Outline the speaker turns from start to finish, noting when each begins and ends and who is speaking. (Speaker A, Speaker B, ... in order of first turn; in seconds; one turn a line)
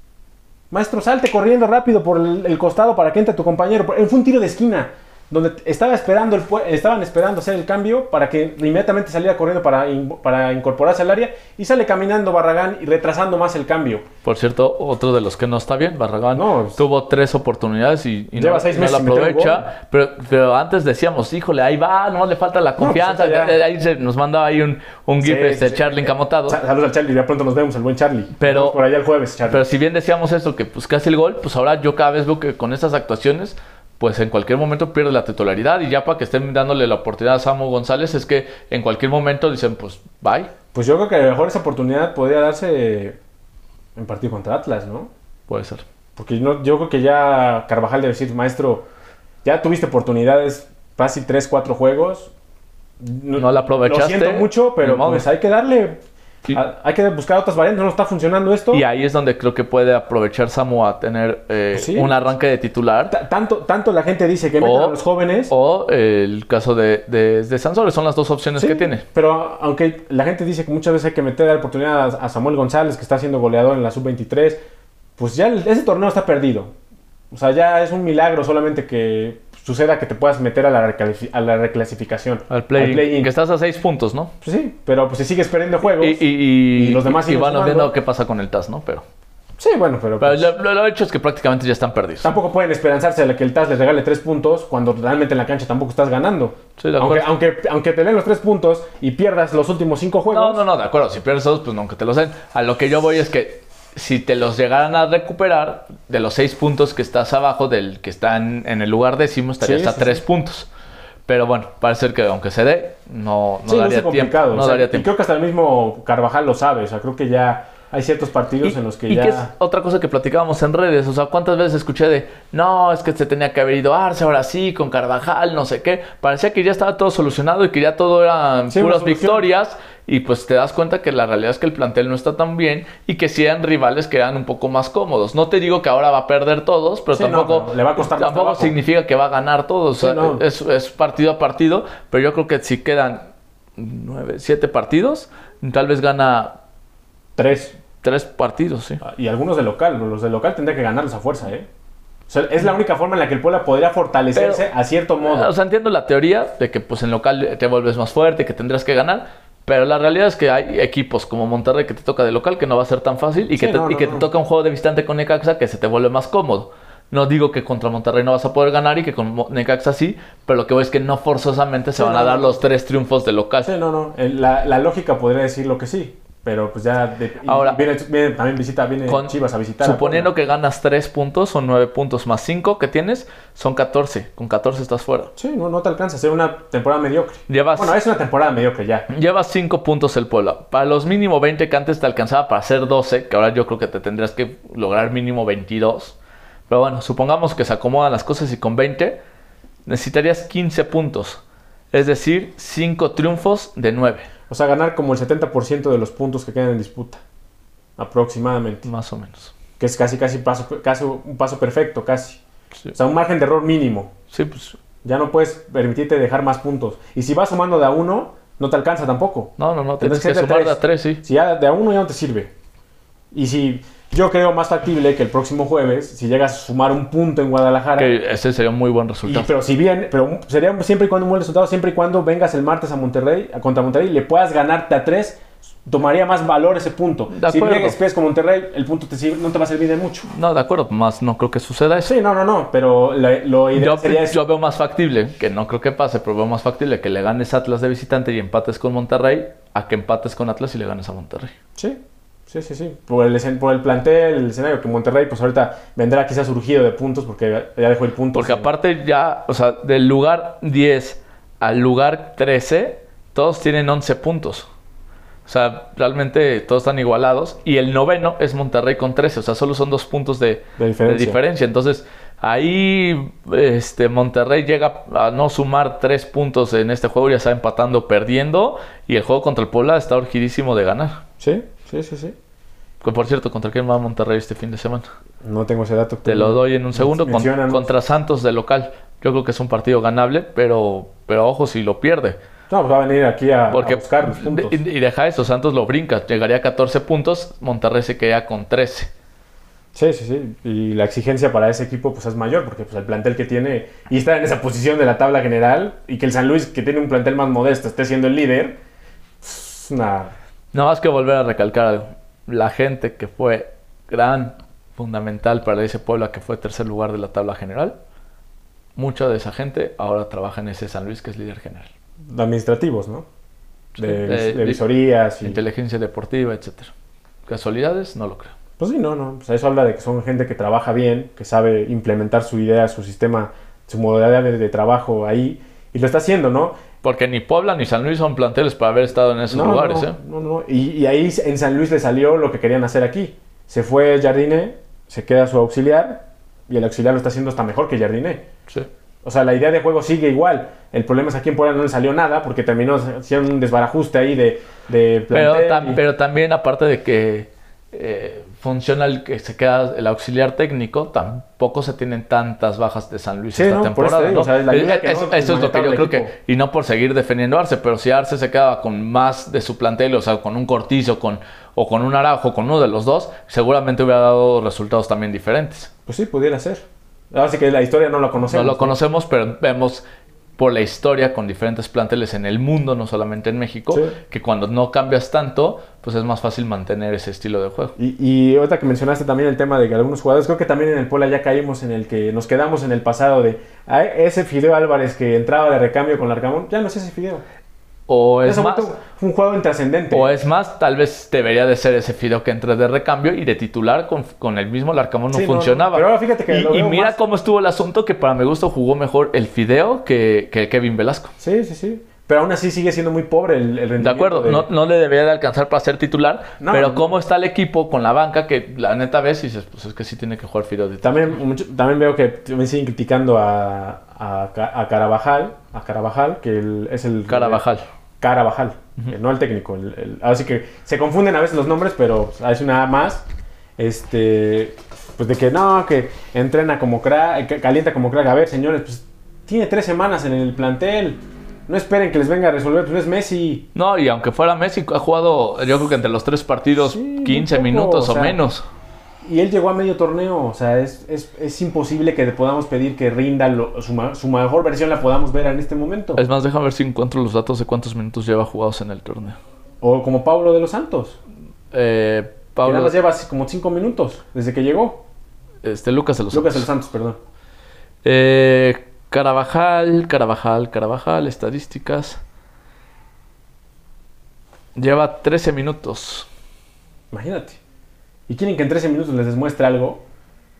Speaker A: 0.7-14.1
Speaker B: 14.2-26.6
Speaker A: 16.4-16.8
Speaker A: 18.4-19.7
Speaker A: 22.8-23.6
Speaker A: 25.2-29.6
Speaker B: 28.4-28.8
Speaker B: 29.5-40.5
Speaker A: 40.7-43.2
Speaker A: 44.0-45.1
Speaker B: 45.5-45.8
Speaker A: 46.1-48.9
Speaker A: 49.4-52.3
Speaker A: 53.0-58.8
Speaker B: 53.4-55.3
Speaker B: 58.7-63.2
Speaker A: 61.7-62.1
Speaker A: 63.1-65.5
Speaker B: 64.6-69.0
Speaker A: 68.6-74.6
Speaker A: 75.2-76.7
Speaker A: 77.3-83.3
Speaker B: 82.5-84.3
Speaker A: 84.4-87.9
Speaker B: 85.8-89.0
Speaker A: 89.6-90.5
Speaker B: 90.2-92.3
Speaker A: 92.2-100.6
Speaker B: 96.8-97.3
Speaker B: 100.3-110.7
Speaker A: 109.6-110.2
Speaker B: 111.3-115.1
Speaker A: 113.7-119.5
Speaker B: 118.6-146.5
Speaker A: 128.7-129.5
Speaker A: 137.1-138.8
Speaker A: 140.0-140.4
Speaker A: 147.4-147.8
Speaker B: 148.0-149.0
Speaker A: 149.0-151.7
Speaker A: 152.3-155.5
Speaker B: 154.3-154.7
Speaker B: 155.2-173.7
Speaker A: 163.6-164.3
Speaker A: 172.0-172.6
Speaker A: 173.6-180.3
Speaker B: 177.5-177.8
Speaker B: 179.1-185.3
Speaker A: 185.4-189.1
Speaker B: 187.5-188.0
Speaker B: 189.1-196.2
Speaker B: 196.7-199.2
Speaker B: 199.9-201.4
Speaker B: 201.9-204.3
Speaker A: 204.5-207.2
Speaker A: 208.0-208.9
Speaker B: 208.8-209.5
Speaker A: 209.8-212.4
Speaker A: 212.9-214.1
Speaker B: 214.3-214.8
Speaker A: 215.0-222.5
Speaker B: 219.6-221.2
Speaker A: 223.3-228.1
Speaker B: 228.0-229.5
Speaker A: 229.2-240.3
Speaker B: 237.3-238.0
Speaker B: 240.3-242.1
Speaker A: 242.0-244.4
Speaker B: 243.7-251.5
Speaker A: 251.8-258.7
Speaker B: 258.3-264.7
Speaker B: 265.5-281.2
Speaker A: 270.8-271.4
Speaker A: 281.4-282.4
Speaker B: 283.0-285.1
Speaker A: 285.4-287.9
Speaker B: 286.3-292.4
Speaker A: 292.7-294.8
Speaker B: 293.7-299.1
Speaker A: 299.9-308.8
Speaker A: 309.4-310.3
Speaker B: 310.7-318.0
Speaker B: 319.0-321.9
Speaker A: 322.3-323.3
Speaker B: 323.9-324.8
Speaker A: 324.0-325.6
Speaker B: 325.4-326.9
Speaker B: 327.5-328.6
Speaker A: 328.8-336.8
Speaker B: 337.0-340.2
Speaker A: 339.5-348.4
Speaker A: 349.2-356.0
Speaker B: 355.3-375.9
Speaker A: 363.5-366.3
Speaker A: 376.1-378.9
Speaker B: 378.5-380.0
Speaker B: 380.6-387.9
Speaker A: 388.0-397.4
Speaker B: 398.1-398.9
Speaker A: 398.4-400.3
Speaker B: 400.1-411.3
Speaker A: 405.3-407.2
Speaker A: 411.4-414.6
Speaker B: 414.0-421.4
Speaker A: 416.6-417.1
Speaker A: 421.0-427.6
Speaker B: 427.3-427.9
Speaker A: 428.2-433.3
Speaker A: 433.8-443.6
Speaker B: 443.8-448.6
Speaker A: 446.8-448.4
Speaker A: 449.2-456.2
Speaker B: 456.2-459.4
Speaker A: 459.8-461.2
Speaker B: 461.7-463.0
Speaker A: 462.6-465.1
Speaker B: 465.6-466.7
Speaker A: 466.3-467.2
Speaker B: 468.0-472.2
Speaker B: 474.8-476.3
Speaker A: 477.1-477.6
Speaker A: 478.3-480.0